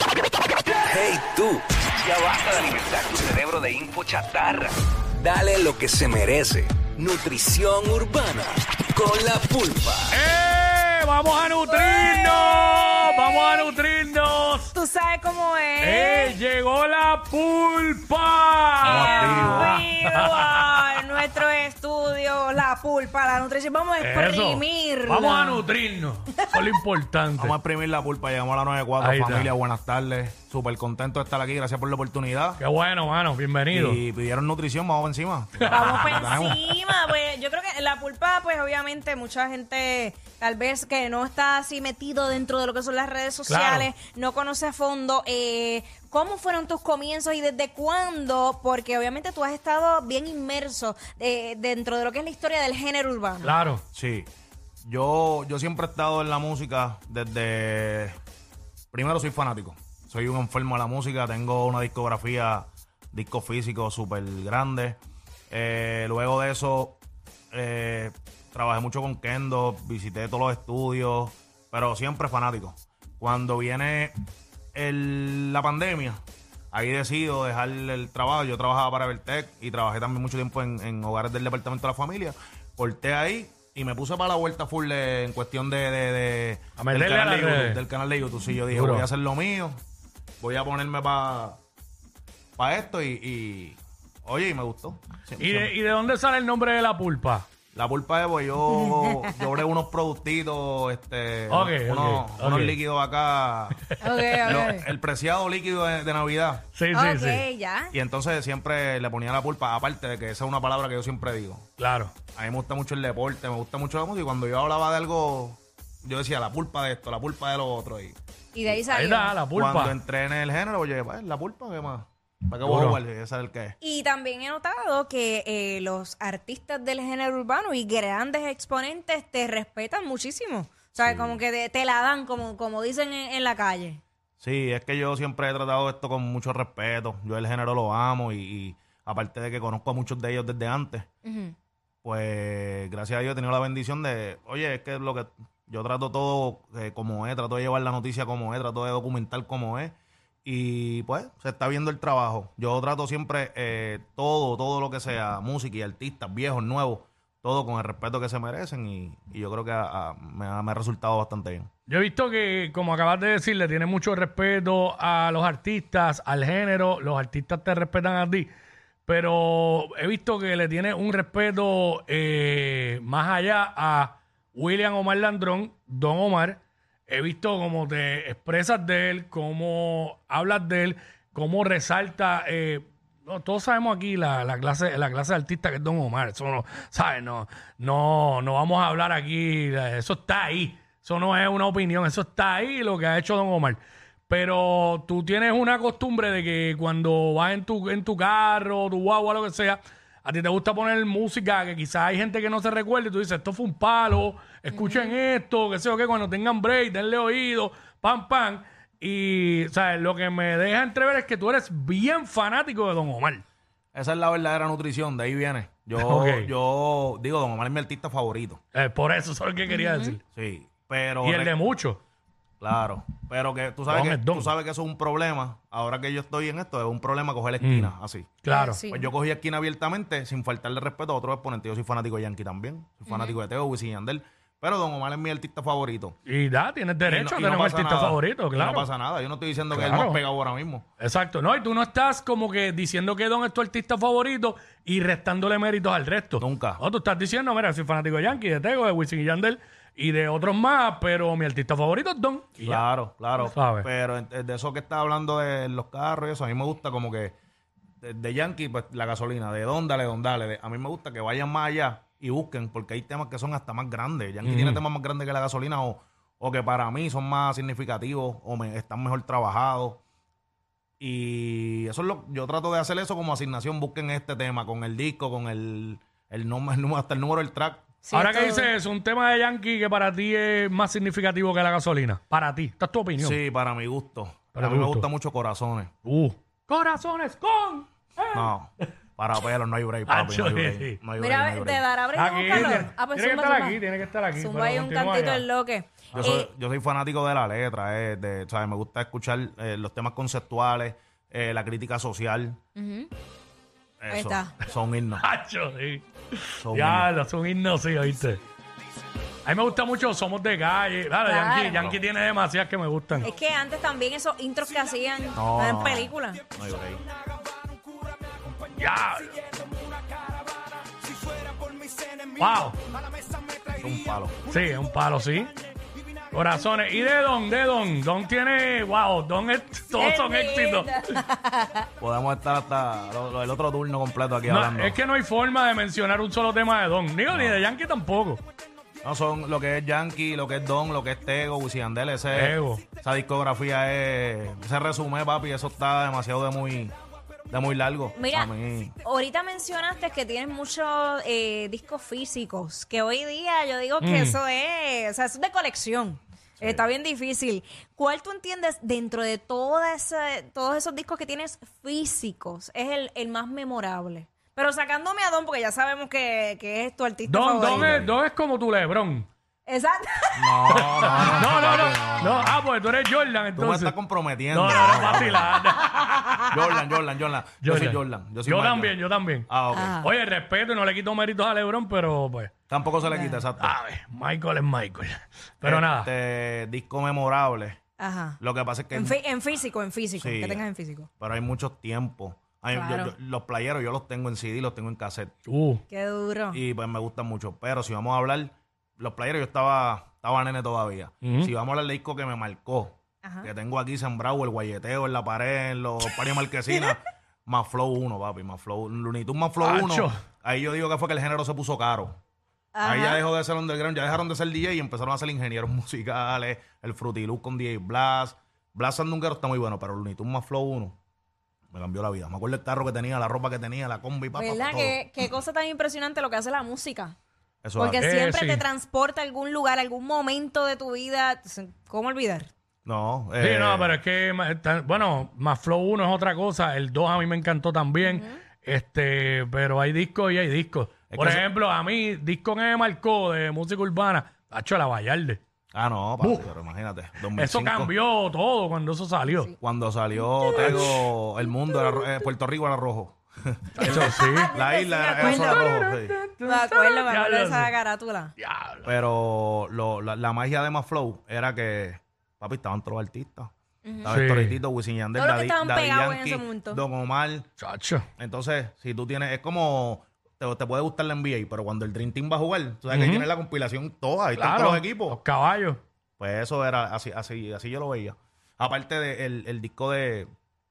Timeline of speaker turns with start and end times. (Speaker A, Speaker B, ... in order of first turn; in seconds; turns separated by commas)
Speaker A: 0.8-10.2, Speaker B: 10.1-14.7, Speaker C: 11.7-13.7, Speaker C: 14.7-16.4, Speaker B: 15.8-21.0, Speaker C: 18.8-25.6, Speaker D: 18.8-19.8, Speaker B: 24.0-27.5, Speaker D: 27.4-32.6, Speaker B: 29.0-29.5, Speaker B: 32.6-34.0, Speaker D: 33.7-36.6, Speaker B: 35.6-37.0, Speaker C: 35.7-53.6, Speaker B: 43.5-43.9, Speaker B: 53.4-53.8, Speaker D: 53.9-54.3, Speaker D: 54.9-58.2, Speaker D: 58.9-65.0, Speaker D: 65.5-67.0, Speaker D: 67.5-74.2, Speaker D: 74.8-76.2, Speaker D: 76.7-89.8, Speaker B: 86.8-87.8, Speaker B: 88.7-89.1, Speaker D: 90.4-91.6, Speaker D: 92.6-95.7, Speaker B: 95.4-97.5, Speaker D: 97.7-106.7, Speaker C: 98.7-99.6, Speaker B: 101.5-102.8, Speaker B: 103.9-104.8, Speaker C: 104.0-104.9, Speaker B: 106.8-107.4, Speaker C: 106.9-107.9, Speaker D: 107.9-111.6, Speaker B: 111.8-112.1, Speaker D: 112.4-118.2, Speaker C: 118.5-119.4, Speaker B: 118.9-120.0, Speaker D: 119.5-123.8, Speaker B: 122.6-123.0, Speaker C: 123.8-134.0, Speaker D: 131.0-131.4, Speaker D: 134.4-141.1, Speaker C: 141.2-141.5, Speaker D: 142.0-149.9, Speaker D: 150.4-161.7, Speaker B: 161.9-168.5, Speaker B: 169.1-213.4, Speaker C: 204.7-205.2, Speaker D: 213.9-218.6, Speaker B: 216.0-216.5, Speaker B: 218.7-220.2, Speaker C: 219.7-220.2, Speaker D: 220.3-221.6, Speaker B: 221.2-222.0, Speaker D: 222.6-228.4, Speaker B: 223.9-224.5, Speaker B: 227.6-227.9, Speaker B: 228.4-228.8, Speaker C: 228.5-229.1, Speaker D: 228.9-236.2, Speaker C: 233.1-233.4, Speaker B: 236.3-238.9, Speaker D: 237.1-240.8, Speaker B: 239.7-240.2, Speaker B: 241.0-252.9, Speaker D: 246.4-246.8, Speaker D: 252.6-257.4, Speaker B: 253.5-253.9, Speaker D: 258.0-270.0, Speaker B: 264.4-264.8, Speaker D: 271.0-277.9, Speaker C: 278.0-278.7, Speaker B: 278.1-283.4, Speaker D: 283.2-285.9, Speaker B: 284.6-285.1, Speaker B: 286.1-288.9, Speaker D: 288.3-291.8, Speaker B: 290.1-291.0, Speaker C: 291.2-293.8, Speaker B: 292.1-295.4, Speaker D: 292.6-292.8, Speaker C: 294.4-296.5, Speaker D: 296.1-302.6, Speaker C: 302.8-303.1, Speaker D: 304.0-305.2, Speaker C: 304.1-304.5, Speaker B: 305.2-308.4, Speaker D: 306.6-307.1, Speaker B: 309.4-313.3, Speaker C: 311.2-311.9, Speaker C: 313.2-316.4, Speaker D: 315.4-317.0, Speaker B: 318.7-319.5, Speaker C: 320.1-320.6, Speaker C: 321.7-322.2, Speaker B: 322.4-322.8, Speaker C: 323.3-323.5, Speaker D: 323.8-324.4, Speaker B: 324.5-325.5, Speaker B: 326.3-331.1, Speaker C: 330.0-331.9, Speaker D: 332.0-335.0, Speaker B: 334.5-338.4, Speaker D: 337.3-337.6, Speaker D: 339.0-346.9, Speaker B: 342.3-342.9, Speaker D: 347.5-348.9, Speaker C: 348.2-367.9, Speaker B: 354.0-354.4, Speaker D: 356.6-356.9, Speaker B: 367.3-369.3, Speaker D: 367.7-368.2, Speaker C: 369.7-371.1, Speaker D: 370.4-372.6, Speaker B: 370.7-373.9, Speaker D: 373.6-375.6, Speaker B: 374.5-376.4, Speaker C: 375.8-376.5, Speaker D: 376.5-379.0, Speaker B: 377.6-382.5, Speaker D: 379.5-380.0, Speaker C: 379.7-380.1, Speaker D: 382.7-383.8, Speaker C: 383.0-383.4, Speaker B: 383.6-386.1, Speaker D: 385.6-387.8, Speaker C: 388.0-388.4, Speaker D: 388.4-389.2, Speaker C: 388.9-391.1, Speaker D: 390.2-390.6, Speaker D: 391.2-395.3, Speaker C: 392.7-393.1, Speaker B: 395.5-395.8, Speaker C: 395.9-396.6, Speaker D: 396.5-412.1, Speaker B: 401.2-401.5, Speaker C: 403.2-403.5, Speaker B: 409.6-410.1, Speaker C: 412.8-413.2, Speaker D: 412.8-420.9, Speaker D: 421.7-425.0, Speaker C: 424.4-427.1, Speaker D: 427.6-428.0, Speaker C: 427.8-432.5, Speaker B: 428.0-428.6, Speaker D: 432.9-433.9, Speaker B: 433.4-445.4, Speaker C: 438.0-438.4, Speaker D: 441.1-441.4, Speaker D: 445.7-447.9, Speaker B: 446.2-446.5, Speaker B: 447.3-449.5, Speaker C: 449.3-449.5, Speaker D: 449.6-456.2, Speaker B: 450.4-451.1, Speaker C: 450.5-450.9, Speaker B: 451.7-452.2, Speaker B: 453.8-454.5, Speaker C: 453.8-455.7, Speaker B: 455.2-457.7, Speaker C: 456.4-458.3, Speaker B: 458.4-458.9, Speaker D: 458.9-463.5, Speaker C: 463.8-464.1, Speaker D: 464.0-467.5, Speaker B: 464.1-464.6, Speaker C: 465.1-466.8, Speaker B: 467.6-468.1, Speaker D: 468.2-475.2, Speaker B: 472.9-473.3, Speaker B: 474.4-475.8, Speaker D: 476.2-480.3